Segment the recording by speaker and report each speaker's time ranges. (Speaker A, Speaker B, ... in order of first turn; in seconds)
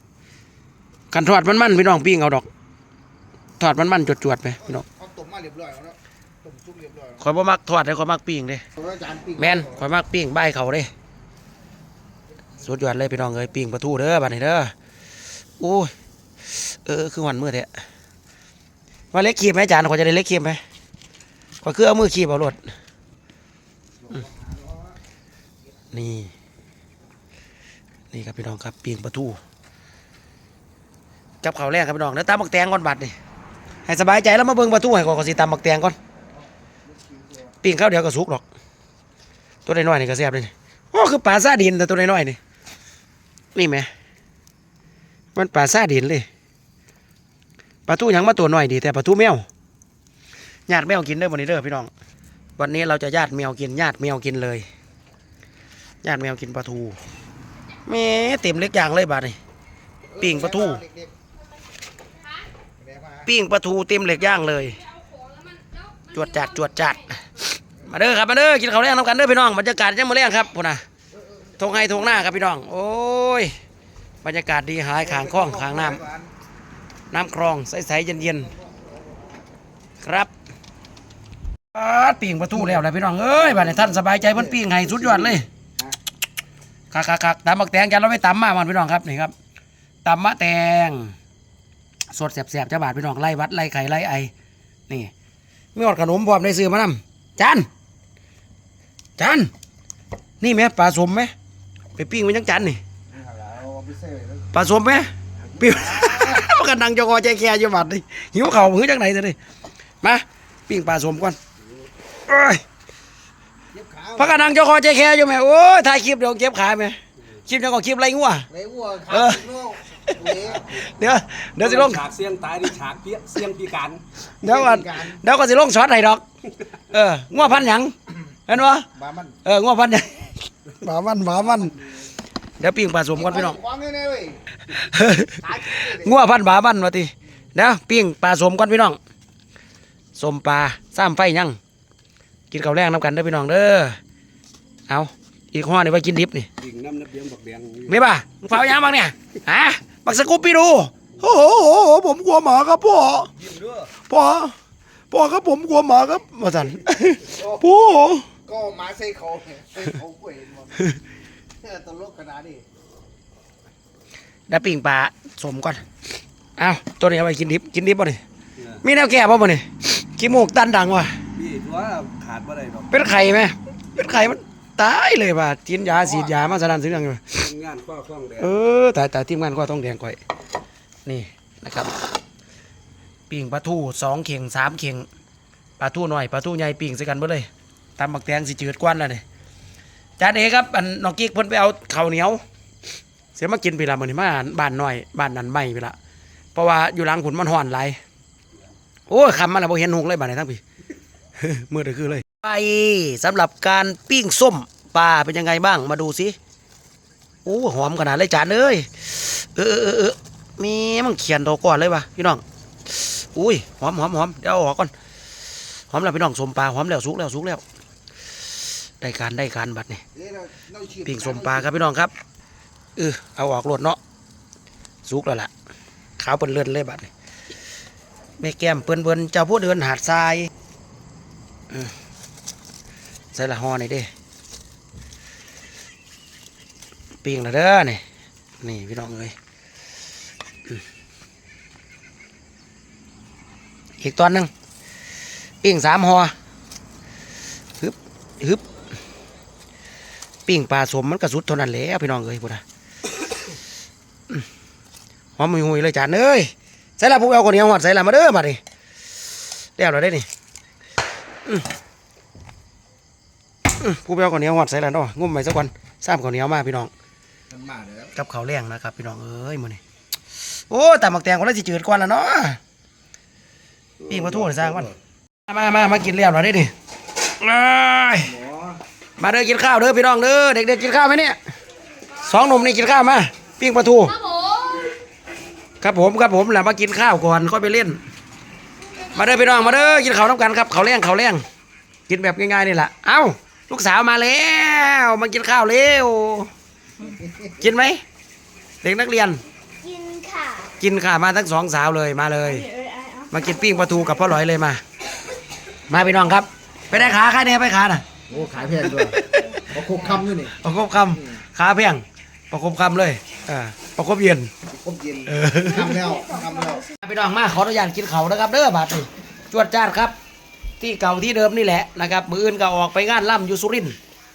Speaker A: 1.1-2.5, 3.6-4.8, 7.2-8.6, 9.4-10.9, 12.6-14.7, 15.6-15.9, 16.5-17.7, 19.1-20.6, 21.6-22.6, 25.9-26.3, 28.1-29.4, 31.4-33.1, 33.8-36.0, 37.6-38.4, 39.6-42.4, 43.5-43.9, 45.3-46.3, 47.9-49.5, 50.7-51.9, 52.6-54.6, 56.0-57.0, 57.8-59.4, 60.2-60.8, 63.2-64.8, 66.1-70.8, 71.6-73.5, 74.2-76.0, 77.1-78.5, 80.0-80.3, 81.7-85.5, 86.9-89.3, 90.0-91.1, 92.1-94.3, 95.7-97.7, 99.2-99.5, 100.4-101.3, 101.9-102.8, 104.5-109.4, 110.0-111.4, 112.3-112.6, 114.2-118.5, 119.1-122.1, 124.4-126.2, 126.9-128.9, 129.4-131.8, 132.6-133.6, 134.6-139.0, 140.1-141.6, 142.5-144.0, 144.9-146.5, 147.8-153.3, 154.1-154.5, 155.1-158.3, 164.5-165.8, 166.6-168.2, 168.8-171.2, 172.9-177.5, 178.4-180.2, 181.0-181.9, 183.3-185.1, 185.8-189.2, 190.2-192.4, 193.3-195.9, 196.5-198.0, 199.1-200.6, 201.4-206.4, 207.4-214.9, 215.9-217.6, 219.0-220.0, 221.0-222.1, 222.9-224.0, 225.0-225.5, 226.2-227.1, 228.4-230.5, 233.3-234.1, 237.2-238.0, 238.6-239.3, 244.0-244.5, 245.6-246.3, 247.8-248.6, 250.5-252.6, 255.4-258.6, 259.8-260.3, 263.8-266.9, 268.1-269.8, 270.5-272.6, 274.1-274.9, 275.5-276.7, 277.2-278.4, 279.2-281.4, 282.2-284.5, 285.8-288.0, 289.1-291.4, 292.1-296.5, 297.4-298.0, 298.8-299.4, 300.7-304.8, 305.9-308.0, 308.8-314.5, 315.2-316.1, 317.0-320.1, 320.8-323.9
Speaker B: 4.8-7.2, 8.8-9.7, 24.0-24.8, 36.9-37.4, 60.1-61.1, 62.8-63.2, 75.1-76.3, 85.1-85.9, 103.1-104.5, 105.6-106.4, 113.7-114.4, 118.5-120.7, 124.4-125.2, 128.9-129.3, 131.6-131.9, 133.2-134.4, 135.3-136.2, 158.5-160.8, 161.6-162.6, 220.2-221.6, 267.5-268.1, 278.3-278.6, 297.0-297.4, 308.3-310.5, 314.7-316.9
Speaker C: 65.0-66.1, 284.3-284.9, 299.8-300.7, 302.7-303.3
Speaker D: 121.6-124.0, 146.6-147.9, 153.5-153.8, 171.3-172.9, 177.4-178.5